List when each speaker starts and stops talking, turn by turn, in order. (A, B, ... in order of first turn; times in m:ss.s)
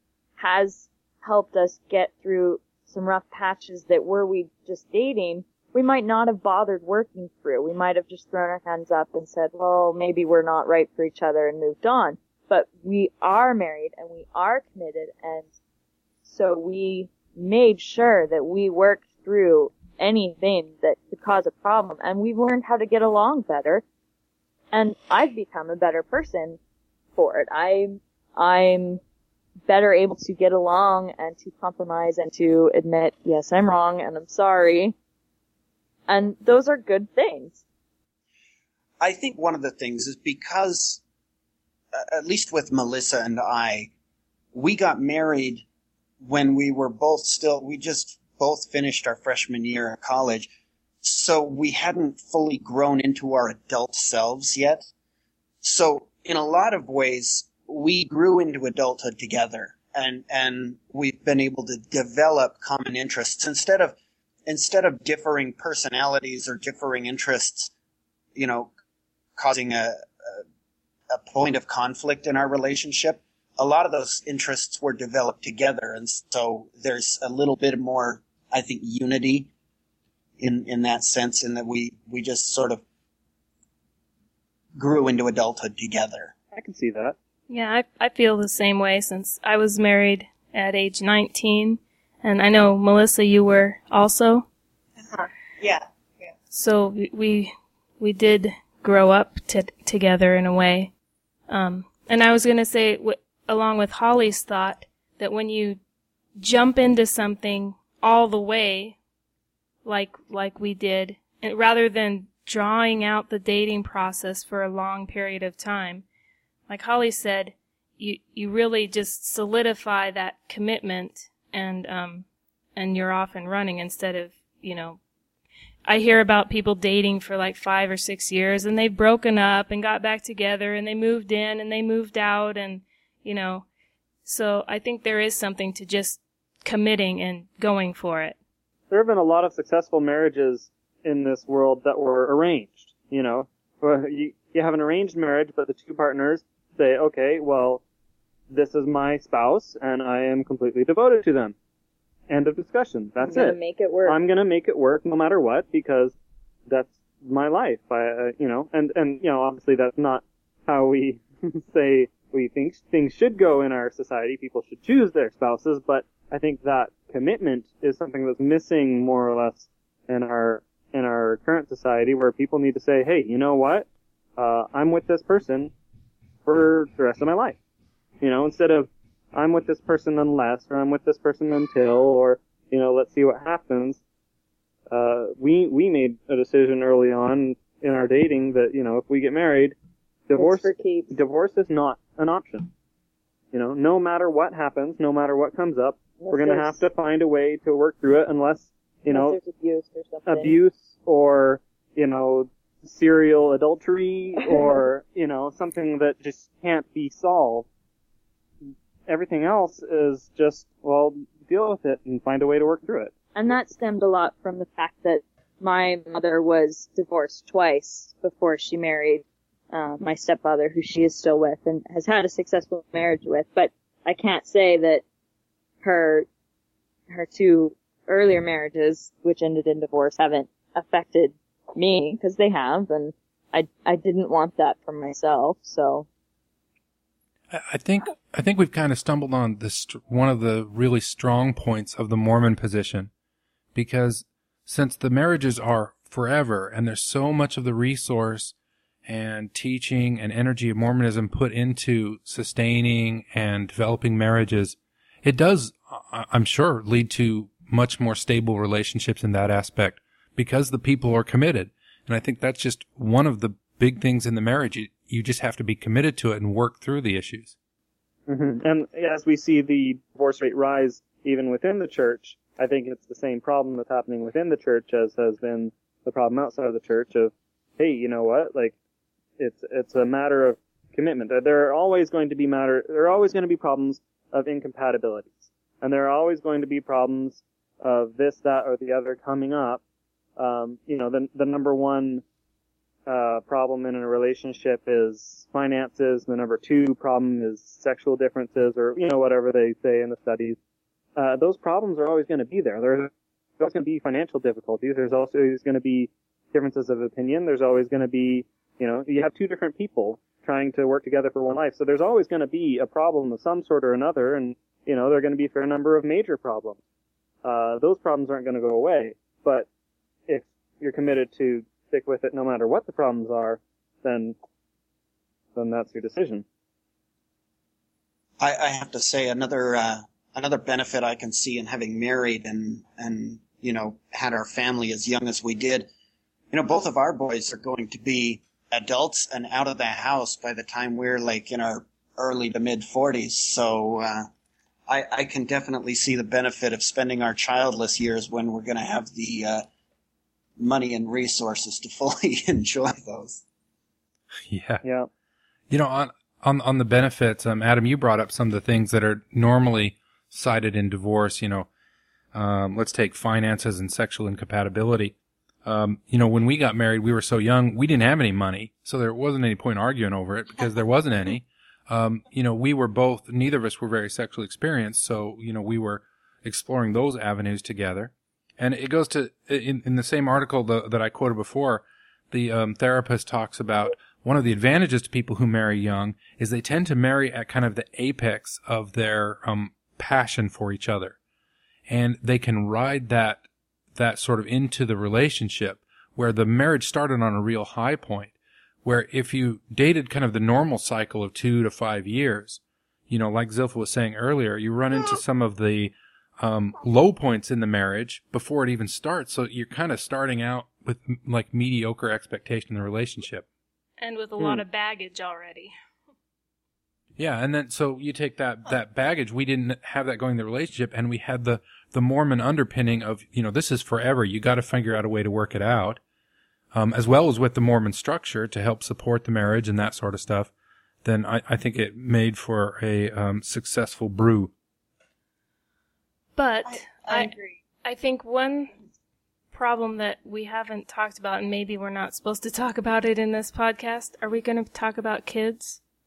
0:00.4-0:15.5 A
0:16.2-0:23.8 A
0:24.7-0:26.6 A
0:27.2-0:29.0 A
0:29.7-0:34.9 A
0:36.1-0:37.6 A
0:39.0-0:41.0 B
0:41.9-0:43.9 B
0:44.5-0:45.6 B
0:46.2-0:50.5 B
0:51.0-0:54.9 B
0:55.6-1:03.9 B
1:04.5-1:07.7 B
1:08.4-1:08.7 B
1:09.4-1:10.4 B
1:11.1-1:19.5 B
1:20.4-1:22.8 B
1:24.8-1:26.3 B
1:26.5-1:27.1 C
1:27.5-1:34.5 D
1:35.0-1:36.3 E
1:36.5-1:40.9 D
1:41.5-1:45.8 D
1:46.4-1:49.0 D
1:49.8-1:56.0 D
1:56.7-2:05.0 D
2:05.8-2:13.6 D
2:14.2-2:18.4 D
2:18.9-2:27.8 C
2:28.5-2:31.5 C
2:32.3-2:36.1 C
2:33.2-2:34.2 A
2:36.7-2:55.7 C
2:56.4-2:57.6 C
2:58.2-3:04.0 C
3:04.9-3:09.8 C
3:10.3-3:12.7 C
3:10.4-3:11.1 A
3:13.5-3:19.4 C
3:16.2-3:16.8 A
3:19.1-3:20.6 A
3:20.3-3:27.7 C
3:29.1-3:33.1 C
3:33.3-3:45.0 A
3:45.8-3:46.3 A
3:47.1-3:56.1 A
3:57.5-4:03.1 F
4:03.7-4:08.5 F
4:09.0-4:27.5 F
4:28.3-4:38.8 C
4:39.4-4:49.8 C
4:50.4-4:52.2 C
4:53.1-5:00.6 C
5:01.2-5:16.8 C
5:17.4-5:19.7 C
5:20.3-5:24.3 C
5:25.5-5:26.4 C
5:28.4-5:35.9 B
5:36.5-5:44.3 B
5:44.9-5:49.6 B
5:50.6-5:53.4 B
5:54.5-5:54.8 F
5:54.8-5:55.1 C
5:55.7-6:01.7 F
6:02.3-6:05.1 F
6:05.6-6:31.2 F
6:31.9-6:33.4 F
6:33.9-6:38.3 F
6:38.8-6:53.4 F
6:54.0-6:55.7 D
6:57.2-7:06.0 F
7:06.7-7:10.5 F
7:11.0-7:14.5 F
7:16.4-7:17.3 D
7:16.6-7:17.6 E
7:17.8-7:18.7 D
7:19.5-7:25.8 D